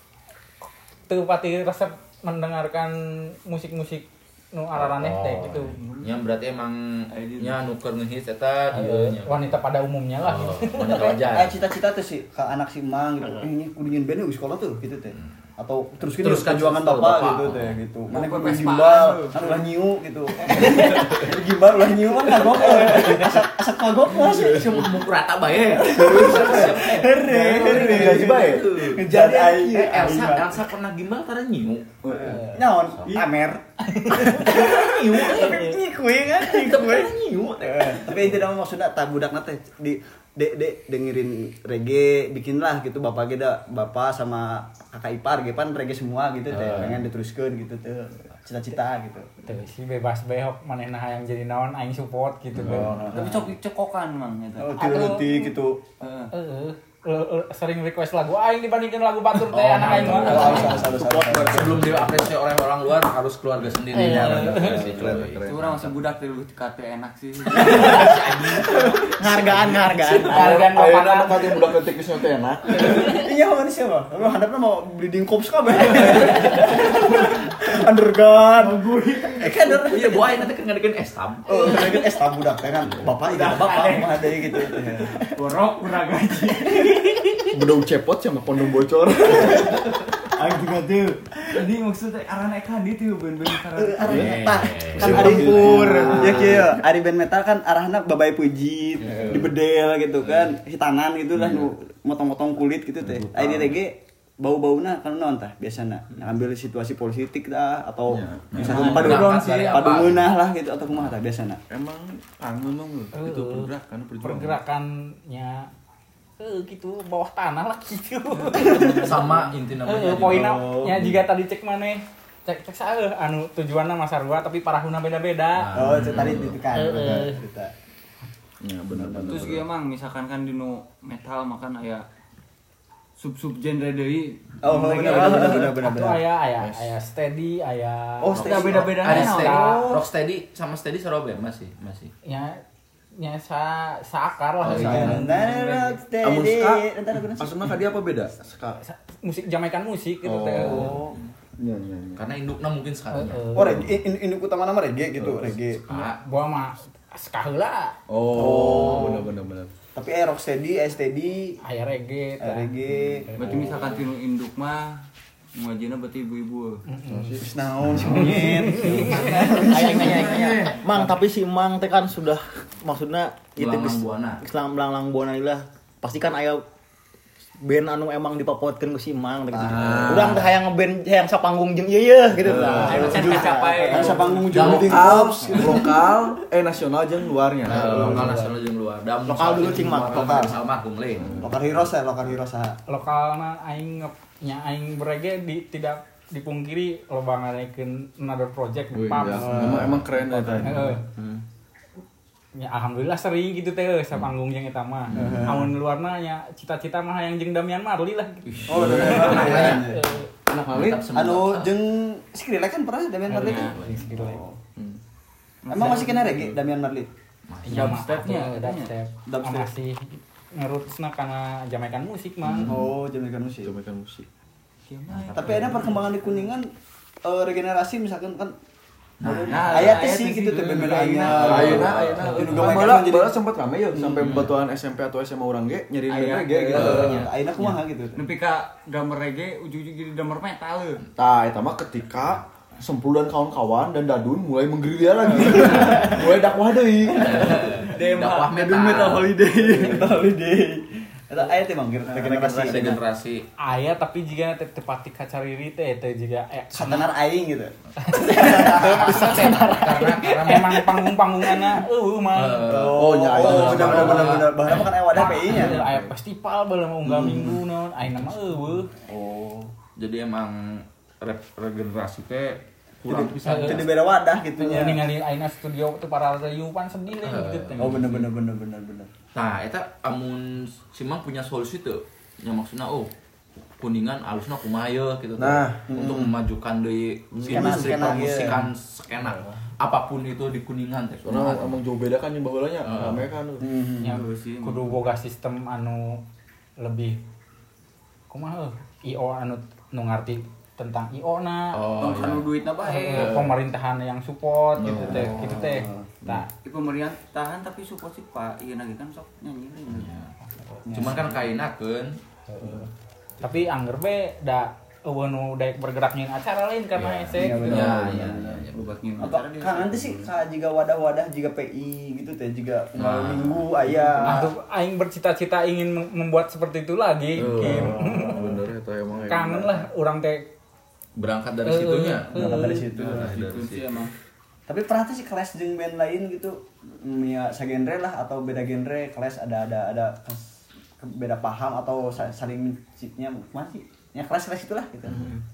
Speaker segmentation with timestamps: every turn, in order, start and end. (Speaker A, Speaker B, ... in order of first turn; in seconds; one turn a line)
Speaker A: 1.1-5.8
Speaker B: 4.7-9.6
Speaker C: 5.8-6.1
Speaker D: 7.1-7.6
Speaker A: 8.7-11.1
Speaker B: 10.2-11.5
Speaker E: 10.8-24.9
Speaker B: 16.2-17.8
Speaker D: 18.1-19.6
Speaker B: 22.6-23.2
Speaker B: 24.1-33.2
Speaker E: 25.7-30.6
Speaker C: 25.9-26.8
Speaker C: 27.4-30.0
Speaker C: 32.0-32.4
Speaker E: 32.1-49.3
Speaker A: 33.9-34.5
Speaker B: 34.3-35.8
Speaker B: 36.3-38.4
Speaker B: 46.5-47.1
Speaker A: 49.4-53.0
Speaker E: 52.6-53.3
Speaker C: 52.6-52.9
Speaker B: 52.6-52.9
Speaker D: 53.1-55.1
Speaker E: 54.6-55.8
Speaker A: 54.8-55.5
Speaker D: 56.0-56.3
Speaker A: 56.3-60.9
Speaker B: 59.5-66.1
Speaker E: 60.0-62.0
Speaker D: 61.0-62.0
Speaker A: 63.9-64.8
Speaker E: 64.0-65.2
Speaker C: 64.0-65.6
Speaker D: 65.4-69.0
Speaker B: 67.5-69.0
Speaker F: 69.2-70.5
Speaker A: 70.0-71.5
Speaker C: 70.2-73.1
Speaker E: 72.8-78.8
Speaker D: 76.0-77.1
Speaker D: 78.5-79.7
Speaker E: 79.4-80.5
Speaker B: 79.8-81.5
Speaker E: 81.5-85.3
Speaker D: 83.2-87.5
Speaker C: 87.5-89.8
Speaker D: 89.9-94.3
Speaker E: 90.4-90.7
Speaker E: 93.8-111.6
Speaker B: 94.0-96.6
Speaker C: 95.0-96.7
Speaker D: 95.3-96.3
Speaker C: 99.0-99.5
Speaker B: 101.4-101.7
Speaker B: 103.0-103.8
Speaker C: 108.1-109.3
Speaker B: 108.5-110.3
Speaker D: 108.7-109.1
Speaker C: 111.7-114.6
Speaker A: 113.1-115.7
Speaker A: 116.4-119.3
Speaker D: 118.5-119.3
Speaker B: 118.6-121.1
Speaker E: 118.6-119.1
Speaker A: 119.8-125.8
Speaker C: 120.6-121.1
Speaker B: 125.5-126.6
Speaker E: 125.7-127.7
Speaker A: 126.3-127.4
Speaker C: 128.6-129.7
Speaker E: 128.9-129.6
Speaker D: 129.3-132.0
Speaker D: 133.2-135.7
Speaker E: 134.6-136.2
Speaker A: 135.0-139.9
Speaker C: 136.6-136.9
Speaker D: 138.2-140.0
Speaker E: 138.3-138.9
Speaker B: 138.4-142.1
Speaker A: 142.2-142.6
Speaker A: 143.2-145.9
Speaker B: 144.6-145.2
Speaker C: 144.7-145.3
Speaker E: 144.7-147.8
Speaker C: 146.2-146.9
Speaker C: 147.4-148.8
Speaker A: 148.8-151.0
Speaker C: 150.2-151.1
Speaker E: 150.6-151.2
Speaker B: 150.6-151.0
Speaker C: 151.6-152.2
Speaker B: 152.2-153.8
Speaker A: 153.1-153.9
Speaker E: 153.5-155.8
Speaker C: 155.2-155.5
Speaker B: 155.7-156.2
Speaker A: 155.9-157.9
Speaker C: 158.1-159.7
Speaker B: 158.3-159.2
Speaker E: 158.3-159.2
Speaker E: 159.9-161.6
Speaker A: 161.6-162.7
Speaker E: 162.4-163.6
Speaker C: 163.3-163.9
Speaker D: 163.4-165.0
Speaker D: 165.5-166.8
Speaker A: 166.9-167.4
Speaker C: 167.1-168.3
Speaker E: 167.4-171.0
Speaker A: 168.0-169.6
Speaker D: 169.1-170.2
Speaker F: 169.6-176.6
Speaker B: 169.9-170.7
Speaker B: 173.6-174.4
Speaker F: 177.6-183.2
Speaker E: 179.5-180.2
Speaker C: 179.7-180.4
Speaker B: 179.8-180.4
Speaker C: 182.3-183.2
Speaker E: 182.8-185.9
Speaker D: 182.8-184.9
Speaker B: 184.5-185.8
Speaker C: 184.5-188.3
Speaker B: 187.6-191.6
Speaker E: 187.7-188.4
Speaker F: 189.3-190.5
Speaker E: 190.1-190.6
Speaker C: 191.2-191.6
Speaker E: 191.4-192.8
Speaker A: 192.9-199.9
Speaker C: 198.9-201.0
Speaker E: 199.3-200.0
Speaker A: 200.6-201.0
Speaker A: 202.5-210.3
Speaker B: 205.1-205.4
Speaker C: 205.1-205.6
Speaker E: 205.2-205.7
Speaker B: 208.5-209.9
Speaker C: 208.7-209.8
Speaker E: 208.7-210.1
Speaker C: 210.5-211.1
Speaker B: 210.6-211.7
Speaker E: 211.1-214.6
Speaker B: 213.3-214.1
Speaker D: 213.3-214.1
Speaker A: 213.3-214.4
Speaker D: 215.6-216.4
Speaker E: 215.7-217.1
Speaker B: 217.5-218.0
Speaker A: 217.7-222.7
Speaker D: 217.7-218.9
Speaker E: 219.3-219.7
Speaker B: 222.4-222.9
Speaker E: 222.7-223.7
Speaker C: 223.6-224.3
Speaker D: 224.9-226.5
Speaker B: 225.1-225.9
Speaker E: 225.3-226.7
Speaker E: 227.2-228.5
Speaker B: 229.2-230.0
Speaker E: 229.2-233.3
Speaker D: 229.4-233.1
Speaker C: 229.5-230.0
Speaker B: 231.2-232.8
Speaker C: 231.2-237.3
Speaker E: 233.9-234.4
Speaker B: 234.1-234.5
Speaker D: 236.1-237.2
Speaker E: 236.7-238.2
Speaker B: 236.7-237.7
Speaker D: 238.1-241.0
Speaker C: 241.2-247.5
Speaker E: 245.6-246.1
Speaker B: 247.1-249.3
Speaker D: 247.2-250.1
Speaker E: 248.6-253.0
Speaker C: 249.5-250.2
Speaker B: 252.4-253.4
Speaker A: 253.6-257.1
Speaker E: 256.7-259.5
Speaker A: 258.0-262.6
Speaker B: 258.8-260.9
Speaker B: 262.3-265.6
Speaker E: 262.7-265.8
Speaker C: 262.9-264.5
Speaker A: 265.1-268.9
Speaker C: 265.5-266.1
Speaker E: 267.0-267.6
Speaker E: 269.0-269.7
Speaker B: 270.0-274.0
Speaker E: 273.1-275.0
Speaker A: 273.4-273.9
Speaker A: 274.6-278.0
Speaker B: 277.2-278.3
Speaker E: 277.8-279.1
Speaker B: 279.3-283.1
Speaker B: 283.8-291.8
Speaker C: 285.4-285.9
Speaker E: 285.9-286.4
Speaker C: 287.3-288.2
Speaker E: 287.4-288.6
Speaker C: 291.2-293.6
Speaker B: 292.8-293.2
Speaker E: 293.6-294.2
Speaker D: 294.0-295.0
Speaker A: 294.0-296.2
Speaker A: 296.8-297.2
Speaker A: 298.3-301.8
Speaker B: 301.7-302.5
Speaker D: 302.0-303.5
Speaker A: 302.8-306.5
Speaker B: 303.1-303.6
Speaker B: 304.8-305.7
Speaker C: 305.0-305.7
Speaker E: 305.4-306.1
Speaker D: 306.6-310.2
Speaker B: 309.9-310.3
Speaker E: 310.9-311.2
Speaker B: 310.9-312.2
Speaker A: 312.5-312.9
Speaker A: 313.4-317.7
Speaker B: 317.0-318.9
Speaker E: 317.4-318.6
Speaker C: 317.5-318.0
Speaker D: 318.2-320.3
Speaker E: 319.2-324.4
Speaker B: 322.9-324.4
Speaker D: 323.9-324.3
Speaker A: 324.2-328.6
Speaker C: 327.4-329.9
Speaker A: 329.3-330.5
Speaker B: 331.1-334.1
Speaker A: 331.6-332.8
Speaker E: 332.3-333.4
Speaker D: 332.8-334.1
Speaker E: 334.7-345.3